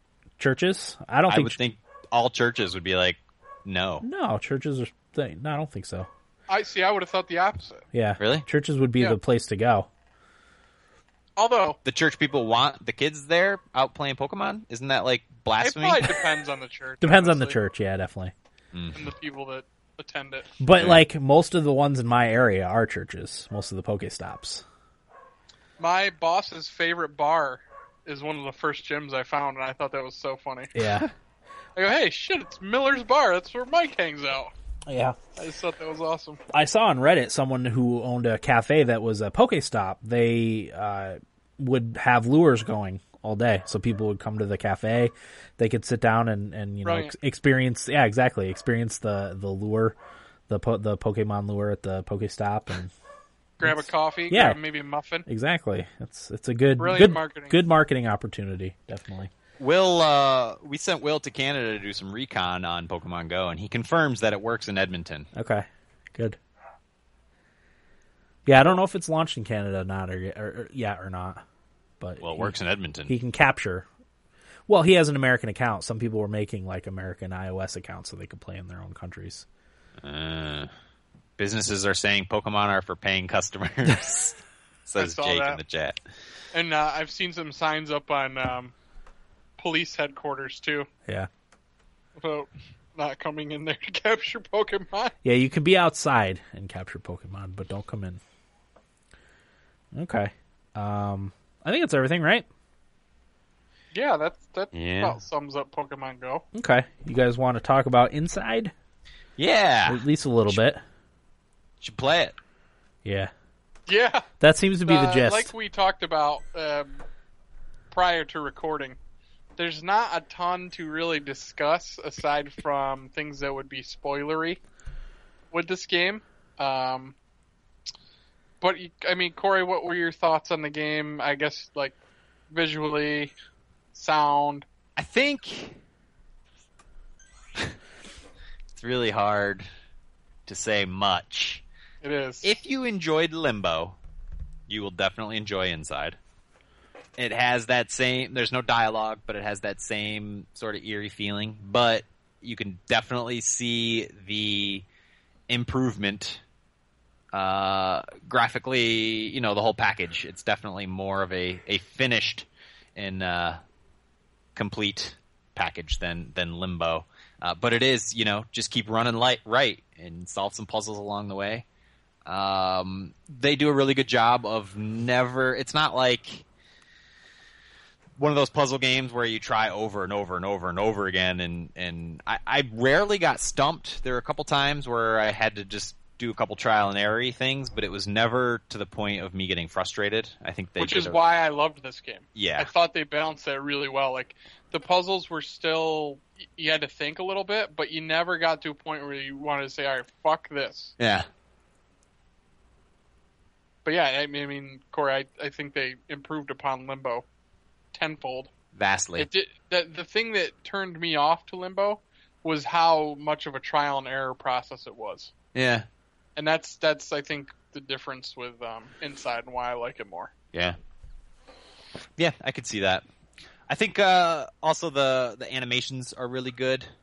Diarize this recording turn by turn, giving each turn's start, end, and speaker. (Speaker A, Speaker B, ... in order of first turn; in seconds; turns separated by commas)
Speaker A: 0.4-1.6, Speaker B: 1.3-4.0, Speaker A: 4.0-6.1, Speaker C: 6.5-7.8, Speaker A: 7.9-9.9, Speaker B: 8.2-8.4, Speaker C: 11.4-11.8, Speaker B: 11.8-16.2, Speaker C: 15.6-17.6, Speaker A: 17.0-18.3, Speaker B: 18.7-19.0, Speaker C: 18.9-20.5, Speaker A: 20.6-24.6, Speaker C: 25.8-30.7, Speaker A: 30.7-31.1, Speaker B: 30.8-31.1, Speaker C: 31.8-34.5, Speaker A: 34.9-35.2, Speaker C: 35.4-36.4, Speaker A: 36.5-50.0, Speaker C: 46.8-47.1, Speaker A: 50.5-52.9, Speaker C: 53.6-55.2, Speaker A: 53.6-54.6, Speaker A: 55.2-59.3, Speaker C: 56.8-57.6, Speaker B: 59.6-65.3, Speaker A: 65.3-66.4, Speaker A: 68.5-71.4, Speaker A: 72.0-72.5, Speaker B: 72.2-73.1, Speaker A: 73.1-73.8, Speaker A: 74.7-79.5, Speaker B: 80.0-80.7, Speaker B: 81.4-86.0, Speaker C: 85.0-85.6, Speaker C: 86.5-88.7, Speaker C: 89.6-90.9, Speaker C: 92.2-95.1, Speaker A: 95.2-98.2, Speaker A: 99.9-102.5, Speaker C: 103.9-106.4, Speaker B: 104.7-105.2, Speaker A: 106.5-108.7, Speaker B: 109.4-110.6, Speaker A: 109.8-110.8, Speaker B: 111.8-112.3, Speaker A: 113.0-113.3, Speaker C: 113.9-114.3, Speaker A: 114.4-115.5, Speaker C: 114.8-117.0, Speaker C: 117.9-119.0, Speaker C: 119.6-124.6, Speaker C: 125.5-127.1, Speaker C: 128.6-131.9, Speaker C: 132.5-133.3, Speaker C: 133.9-134.7, Speaker B: 135.0-135.8, Speaker B: 138.8-139.7, Speaker B: 140.5-141.6, Speaker C: 142.0-142.5, Speaker B: 142.4-143.9, Speaker B: 144.7-146.2, Speaker B: 147.2-154.8, Speaker B: 155.5-156.4, Speaker B: 157.3-163.6, Speaker B: 164.6-171.6, Speaker B: 172.2-176.4, Speaker B: 178.2-191.2, Speaker C: 190.8-200.9, Speaker B: 192.3-192.7, Speaker B: 201.0-201.3, Speaker C: 203.8-207.2, Speaker C: 207.9-208.5, Speaker B: 208.7-209.3, Speaker C: 209.2-215.3, Speaker B: 215.5-215.8, Speaker C: 216.3-220.3, Speaker B: 222.2-223.0, Speaker B: 223.7-226.9